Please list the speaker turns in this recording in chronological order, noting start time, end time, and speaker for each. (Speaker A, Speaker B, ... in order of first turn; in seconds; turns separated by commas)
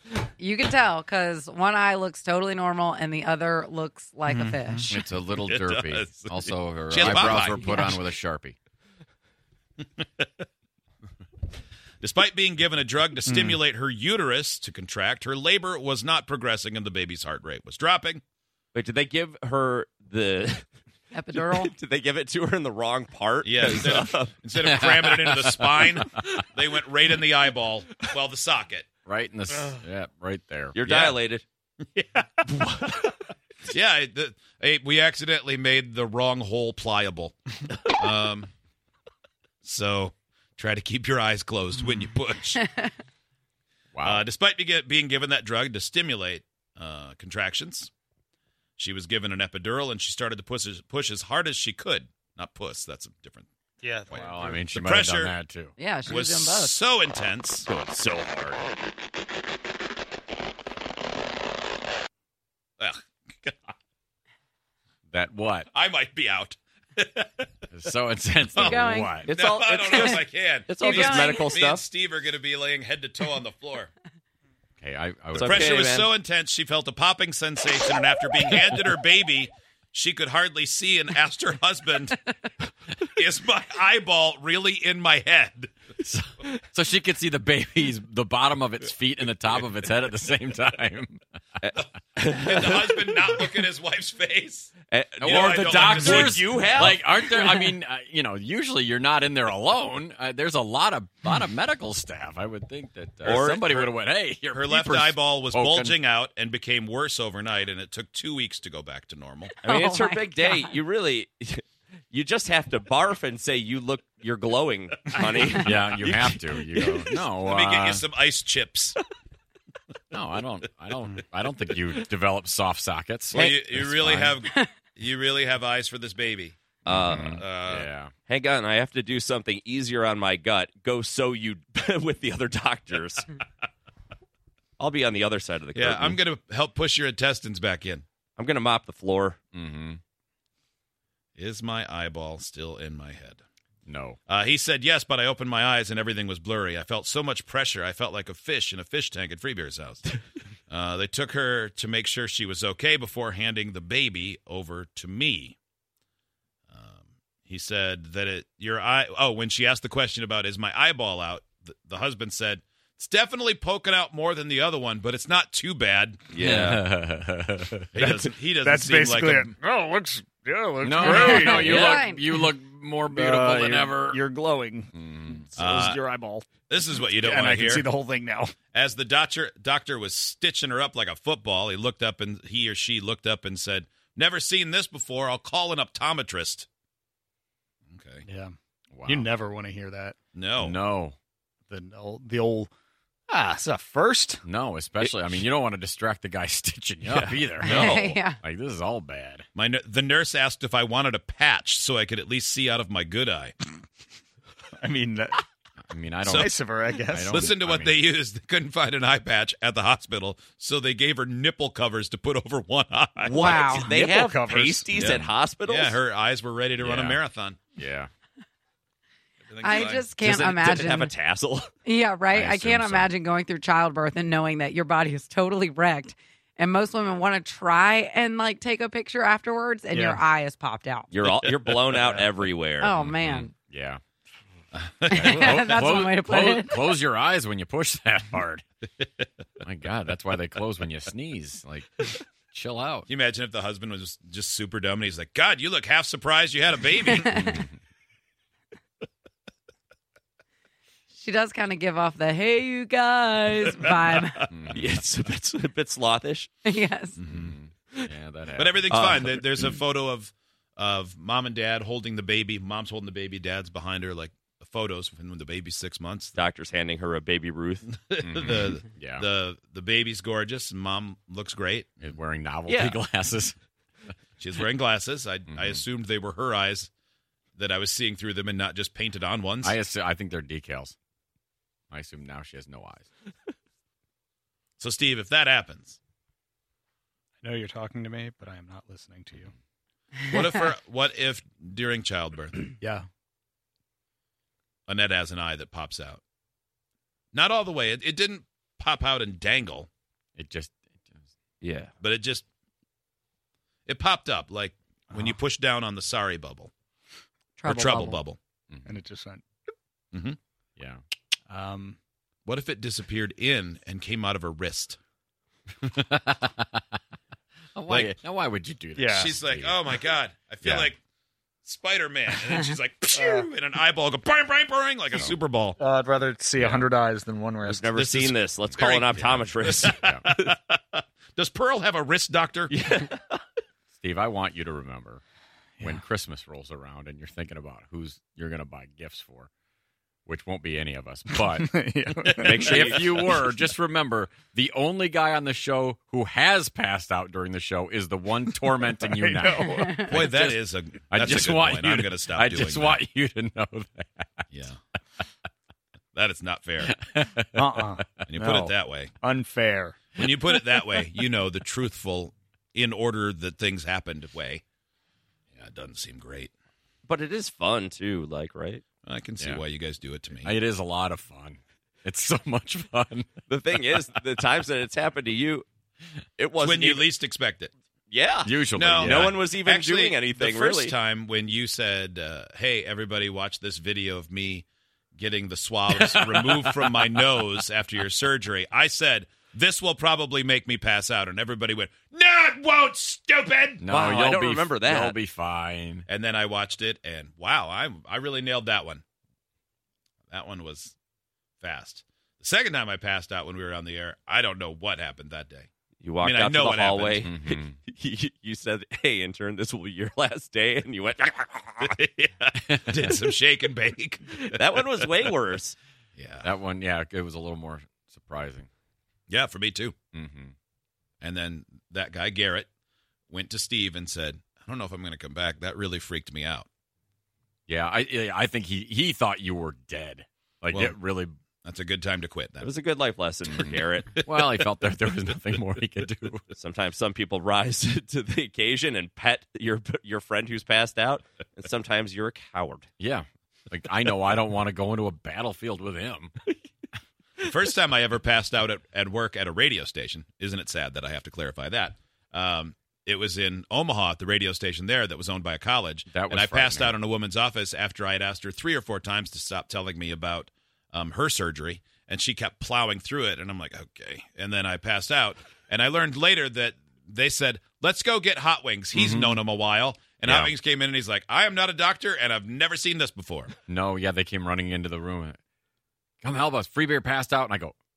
Speaker A: 0.4-4.9, Speaker B: 4.3-4.9, Speaker C: 4.9-8.6, Speaker D: 5.6-5.8, Speaker E: 6.9-7.7, Speaker A: 7.6-8.0, Speaker E: 10.0-10.3, Speaker E: 12.0-18.2, Speaker B: 13.3-13.6, Speaker D: 18.7-20.7, Speaker A: 21.1-21.7, Speaker D: 21.3-24.3, Speaker E: 23.4-28.9, Speaker C: 24.6-26.4, Speaker C: 29.0-30.8, Speaker D: 30.8-31.4, Speaker E: 30.8-31.2, Speaker E: 31.9-32.4, Speaker D: 32.6-32.9, Speaker E: 33.7-38.5, Speaker E: 39.6-42.6, Speaker C: 43.9-44.2, Speaker E: 44.0-47.9, Speaker E: 48.8-53.5, Speaker B: 53.8-54.6, Speaker C: 54.1-55.7, Speaker E: 54.2-55.4, Speaker A: 55.8-56.8, Speaker E: 56.0-57.7, Speaker D: 57.7-58.6, Speaker E: 62.8-63.7, Speaker C: 65.1-65.7, Speaker E: 65.7-67.5, Speaker C: 67.7-69.3, Speaker A: 68.5-69.2, Speaker E: 68.6-73.9, Speaker D: 69.2-71.8, Speaker A: 70.8-71.6, Speaker C: 74.8-75.8, Speaker D: 75.3-76.1, Speaker E: 75.4-82.2, Speaker E: 83.0-85.7, Speaker C: 86.0-91.2, Speaker D: 91.6-93.5, Speaker E: 92.3-97.0, Speaker D: 94.9-97.1, Speaker C: 95.2-106.0, Speaker D: 103.2-103.9, Speaker E: 104.5-109.6, Speaker D: 109.6-117.2, Speaker A: 109.7-110.8, Speaker C: 115.5-118.0, Speaker E: 117.4-119.0, Speaker C: 120.1-124.4, Speaker D: 123.3-123.7, Speaker E: 123.3-126.6, Speaker D: 126.8-127.4, Speaker C: 126.8-128.1, Speaker E: 127.2-127.9, Speaker D: 128.3-133.3, Speaker D: 134.8-136.2, Speaker E: 135.7-138.0, Speaker D: 138.4-139.4, Speaker C: 139.5-140.0, Speaker E: 141.4-143.4, Speaker C: 143.9-144.2, Speaker E: 144.3-150.1, Speaker E: 150.7-155.6, Speaker E: 156.7-166.2, Speaker D: 166.3-166.8, Speaker C: 166.4-168.0, Speaker E: 167.9-169.5, Speaker B: 168.0-171.8, Speaker C: 170.8-174.2, Speaker A: 171.0-172.3, Speaker D: 171.7-171.9, Speaker B: 173.1-174.9, Speaker C: 174.9-175.5, Speaker E: 175.6-176.0, Speaker B: 175.6-176.5, Speaker E: 176.7-177.9, Speaker B: 177.2-178.5, Speaker E: 178.7-186.7, Speaker E: 187.9-188.2, Speaker B: 188.2-188.5, Speaker C: 188.9-189.3, Speaker B: 189.1-190.2, Speaker E: 190.3-190.8, Speaker C: 190.6-191.2, Speaker B: 191.7-192.7, Speaker B: 193.3-194.4, Speaker C: 194.4-199.4, Speaker B: 197.1-197.4, Speaker A: 197.6-198.4, Speaker D: 197.7-197.9, Speaker E: 199.5-203.5, Speaker B: 204.8-205.4, Speaker C: 205.9-206.5, Speaker E: 206.2-206.5, Speaker B: 206.3-207.5, Speaker C: 207.0-208.0, Speaker E: 207.3-213.5, Speaker D: 213.3-216.0, Speaker B: 213.3-215.0, Speaker A: 213.4-213.9, Speaker E: 215.0-217.7, Speaker C: 215.0-215.3, Speaker C: 216.8-218.1, Speaker E: 219.5-220.1, Speaker A: 219.6-221.1, Speaker D: 220.2-221.7, Speaker A: 221.8-231.1, Speaker C: 222.3-223.1, Speaker B: 229.9-230.2, Speaker D: 231.1-232.9, Speaker C: 231.3-232.3, Speaker A: 232.8-233.5, Speaker C: 232.9-234.0, Speaker E: 234.8-235.7, Speaker C: 235.1-238.6, Speaker A: 235.1-236.8, Speaker C: 239.6-243.1, Speaker E: 243.1-247.5, Speaker A: 247.2-247.5, Speaker A: 251.2-254.5, Speaker E: 253.6-254.4, Speaker C: 254.5-254.8, Speaker D: 254.7-256.5, Speaker A: 256.6-257.2, Speaker E: 257.2-257.5, Speaker C: 257.2-259.2, Speaker E: 258.5-266.4, Speaker D: 258.9-259.7, Speaker D: 266.4-267.9, Speaker E: 267.9-271.9, Speaker C: 268.2-269.2, Speaker C: 272.0-273.5, Speaker D: 272.7-273.0, Speaker E: 274.4-276.9, Speaker C: 275.5-275.8, Speaker E: 277.6-279.8, Speaker C: 279.6-280.9, Speaker C: 281.9-283.1, Speaker E: 284.8-286.0, Speaker B: 287.4-289.5, Speaker E: 290.3-292.7, Speaker B: 292.8-293.1, Speaker E: 294.9-296.2, Speaker E: 297.3-299.9, Speaker C: 300.4-301.2, Speaker D: 301.6-301.9, Speaker E: 302.0-302.4, Speaker E: 303.9-306.7, Speaker A: 307.6-308.2, Speaker E: 307.6-308.4, Speaker C: 308.7-309.0, Speaker B: 308.9-309.4, Speaker E: 310.1-310.4, Speaker B: 311.5-312.0, Speaker E: 312.5-315.0, Speaker C: 315.8-316.8, Speaker A: 317.8-318.1, Speaker C: 317.9-319.8, Speaker B: 319.0-319.3, Speaker E: 319.2-321.0, Speaker C: 320.6-320.9, Speaker E: 321.6-325.8, Speaker B: 323.2-323.5, Speaker B: 325.8-328.4, Speaker C: 326.6-326.9, Speaker D: 327.6-330.5, Speaker E: 328.7-329.1, Speaker C: 329.1-330.2, Speaker E: 329.6-332.7, Speaker D: 332.7-333.4, Speaker C: 334.0-335.2, Speaker C: 335.8-339.5, Speaker C: 340.3-354.5, Speaker B: 341.3-342.9, Speaker D: 342.4-343.2, Speaker B: 349.0-350.2, Speaker E: 350.1-353.0, Speaker E: 354.5-354.8, Speaker E: 356.1-356.9, Speaker C: 356.8-358.3, Speaker B: 357.6-360.0, Speaker E: 358.3-359.1, Speaker E: 360.2-364.6, Speaker C: 360.2-361.1, Speaker E: 365.6-366.5, Speaker D: 367.1-368.8, Speaker E: 369.1-370.5, Speaker C: 370.4-374.1, Speaker D: 373.5-375.7, Speaker D: 376.4-377.1, Speaker E: 376.6-377.7, Speaker D: 378.1-381.0, Speaker C: 378.4-379.4, Speaker E: 378.7-384.6, Speaker E: 385.2-393.8, Speaker C: 385.9-387.5, Speaker C: 393.8-396.1, Speaker D: 393.9-395.2, Speaker E: 396.1-399.0, Speaker E: 400.3-400.9, Speaker E: 401.6-405.7, Speaker D: 406.0-411.9, Speaker E: 406.2-407.3, Speaker C: 407.2-407.8, Speaker E: 411.8-415.1, Speaker C: 412.7-413.1, Speaker D: 414.4-415.8, Speaker E: 416.2-416.5, Speaker C: 416.4-418.7, Speaker E: 419.3-420.0, Speaker C: 420.1-420.5, Speaker E: 421.2-422.7, Speaker E: 423.3-426.7, Speaker C: 427.7-431.4, Speaker E: 430.7-431.0, Speaker E: 431.6-432.7, Speaker D: 432.6-434.2, Speaker C: 433.5-436.4, Speaker D: 436.6-442.9, Speaker C: 443.0-446.3, Speaker E: 447.4-473.6, Speaker C: 456.1-457.0, Speaker C: 468.9-469.4, Speaker C: 470.2-470.5, Speaker C: 473.6-475.4, Speaker C: 476.2-477.8